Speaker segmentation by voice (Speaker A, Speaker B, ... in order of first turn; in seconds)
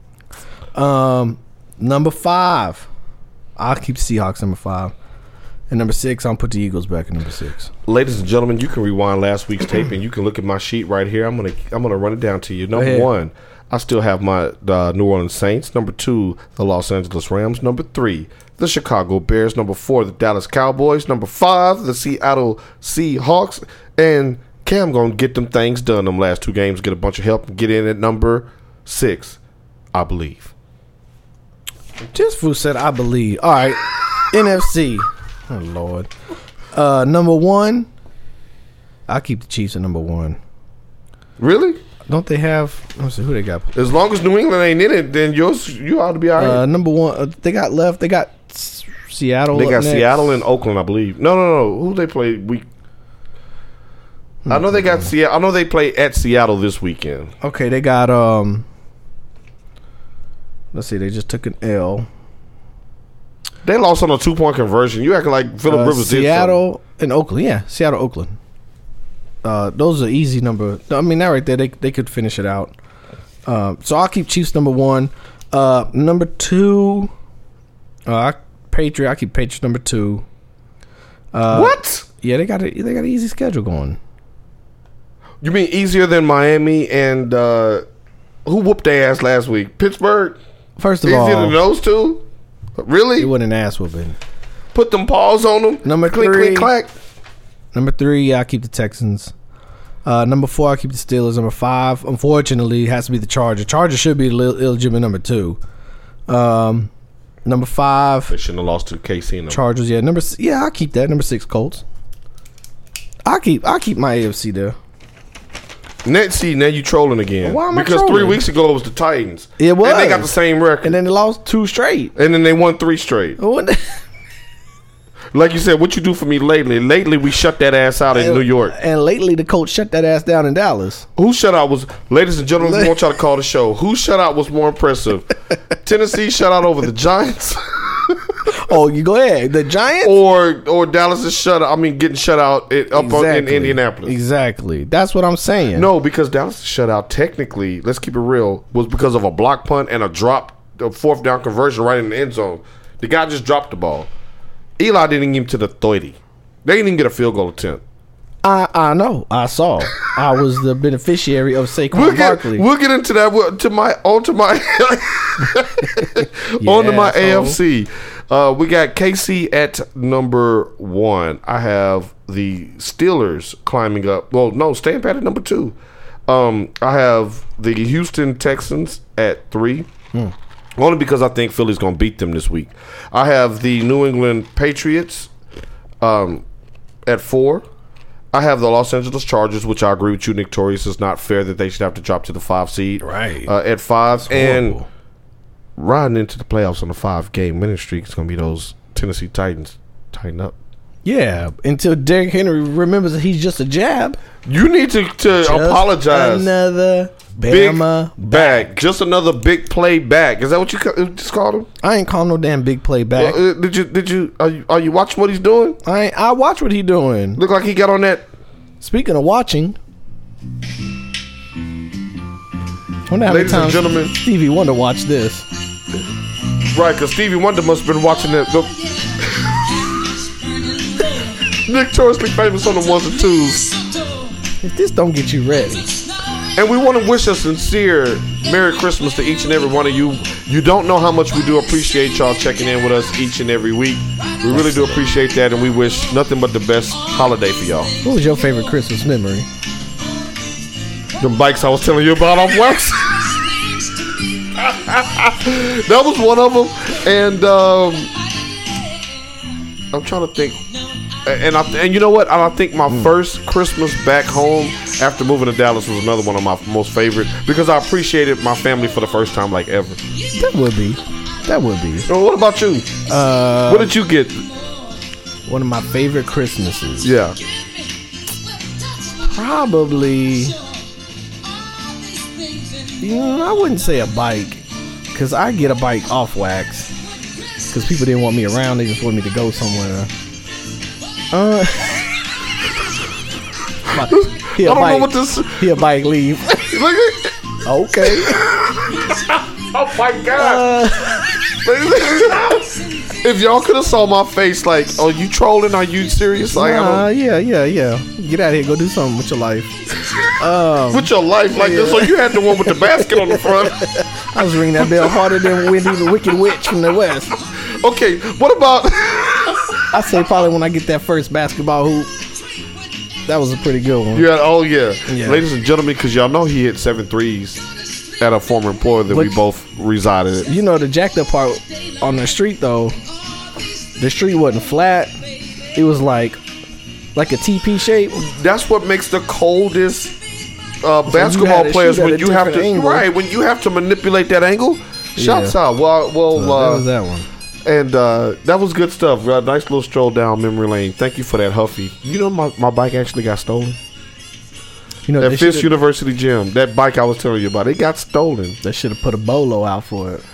Speaker A: 0.7-2.9, 3.6-4.9, 5.7-7.7, 12.7-13.1, 32.1-36.1, 36.7-37.9, 39.1-40.4, 42.1-43.7, 46.4-50.3, 54.4-55.1, 57.4-58.6, 60.7-62.1, 65.7-68.3, 69.4-72.7, 73.5-77.1, 78.0-80.2, 81.3-84.0, 90.8-91.6, 93.2-94.2, 95.8-96.7, 97.7-99.3, 100.0-105.6, 106.3-106.9, 107.4-108.3, 109.5-111.8, 113.2-114.8, 117.4-118.4, 119.6-122.1, 123.4-124.0, 128.1-131.1, 132.6-132.9, 138.5-140.1, 142.9-145.9, 158.4-162.6, 166.6-167.6, 193.0-193.5, 194.2-194.8, 201.0-204.2, 205.4-208.8, 211.8-213.4, 215.8-217.4, 218.8-219.8, 223.1-225.4, 234.6-235.9, 244.5-245.0, 248.0-249.5, 270.3-272.1, 273.1-273.9, 275.5-277.1, 279.1-280.6, 283.0-286.9, 287.7-290.1, 291.3-292.1, 293.9-296.7, 297.6-298.5, 300.3-301.4, 306.5-309.7, 310.3-317.3, 319.9-322.1, 323.2-324.3, 325.1-325.4, 329.1-329.3, 330.4-333.0, 334.0-335.2, 335.7-336.4, 337.1-338.2, 341.1-343.1, 345.2-345.6, 346.3-347.3, 355.1-355.7, 358.6-360.2
Speaker B: 7.8-29.4, 29.9-30.5, 41.4-41.8, 43.7-46.6, 49.5-52.6, 54.5-57.3, 63.6-66.6, 81.5-82.1, 85.4-87.8, 88.4-90.4, 91.0-92.2, 92.8-93.3, 94.7-96.9, 108.3-109.6, 116.0-121.0, 122.2-123.4, 125.3-128.7, 131.2-135.3, 135.8-138.4, 140.0-144.1, 145.7-154.1, 154.8-157.8, 161.9-179.9, 180.8-185.3, 186.0-186.4, 187.1-187.7, 188.3-194.8, 195.8-200.6, 204.4-206.5, 207.4-211.7, 213.2-215.8, 217.4-218.3, 223.2-224.1, 226.7-229.6, 231.5-233.7, 236.5-247.9, 251.2-253.4, 254.5-258.1, 259.9-260.6, 261.2-270.0, 272.1-272.9, 273.6-274.5, 277.0-277.4, 294.0-295.8, 296.7-297.4, 298.0-300.7, 301.6-307.0, 310.9-313.9, 314.8-315.8, 317.4-319.8, 324.1-327.6, 328.2-330.5, 338.1-340.1, 340.8-346.9, 347.6-353.8, 355.2-358.6